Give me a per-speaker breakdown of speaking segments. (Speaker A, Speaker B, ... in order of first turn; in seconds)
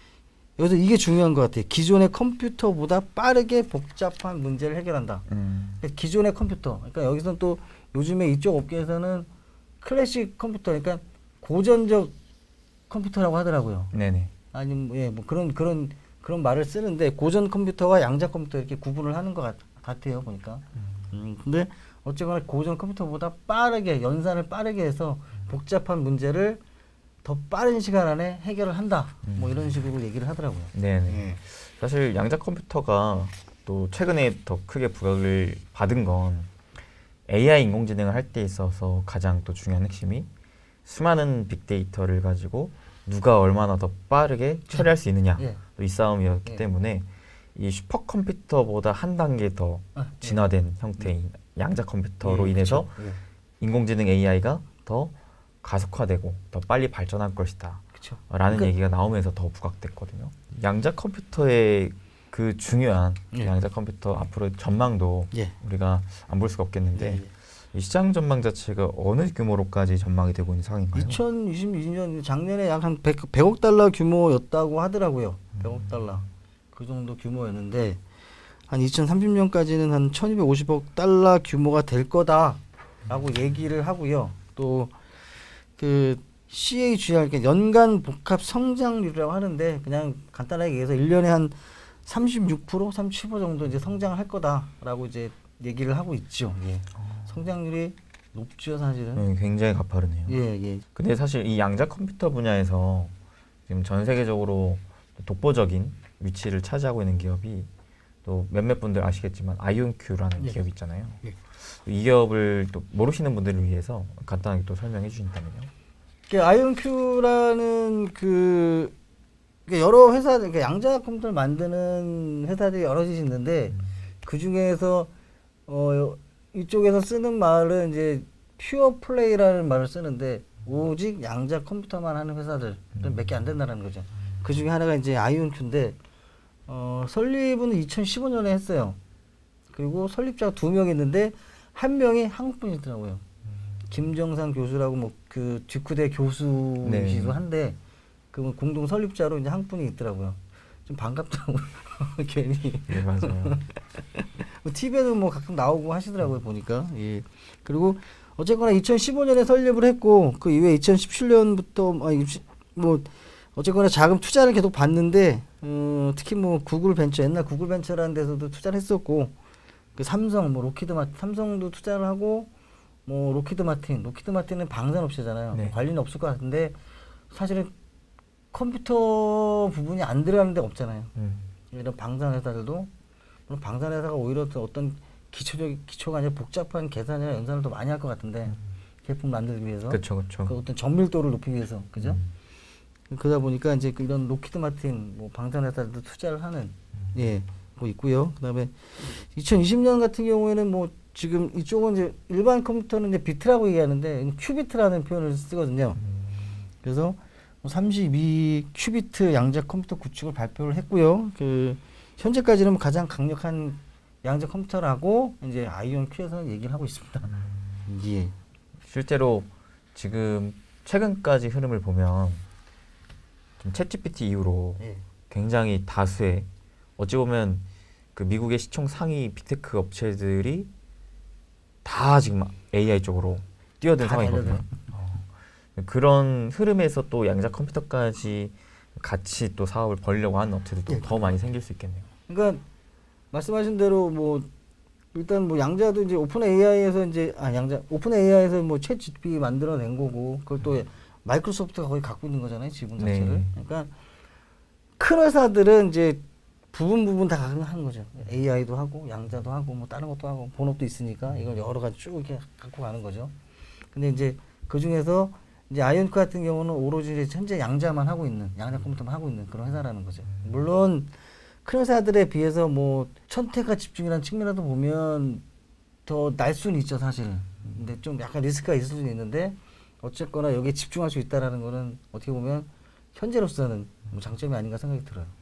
Speaker A: 0.6-5.3, 5.8-9.3, 9.8-12.1, 12.9-13.9, 14.5-26.6, 27.2-31.4, 44.7-45.6, 50.0-50.5, 52.2-53.2, 58.0-58.7, 67.0-67.3, 70.9-78.0, 78.7-85.0, 85.8-99.3, 100.3-100.8, 116.3-118.9, 119.7-125.1, 125.7-136.0, 136.7-139.0, 139.7-143.2, 143.9-147.8, 148.3-169.3, 170.0-172.5, 173.1-176.8, 177.3-177.7, 178.5-181.1, 181.7-182.9, 183.5-192.2, 193.1-206.0, 206.8-217.3, 217.9-218.3, 224.8-225.1, 234.0-234.8, 240.9-241.4, 242.3-242.6, 243.3-244.5, 245.1-253.9, 255.0-256.2, 256.7-263.3, 263.9-271.1, 271.6-275.4, 276.1-285.3
Speaker B: 5.3-5.8, 13.9-14.3, 29.3-29.8, 30.7-36.5, 37.3-40.3, 40.9-53.0, 53.6-71.2, 75.6-76.1, 97.0-97.4, 99.2-100.4, 101.0-103.1, 103.7-107.7, 108.2-111.2, 111.7-115.7, 133.0-133.3, 146.8-147.4, 152.9-153.6, 175.5-175.8, 181.2-181.5, 189.9-190.6, 192.0-192.3, 206.0-206.6, 217.3-217.9, 218.9-222.4, 223.6-226.5, 227.0-227.6, 228.2-230.7, 231.8-242.1, 253.0-253.5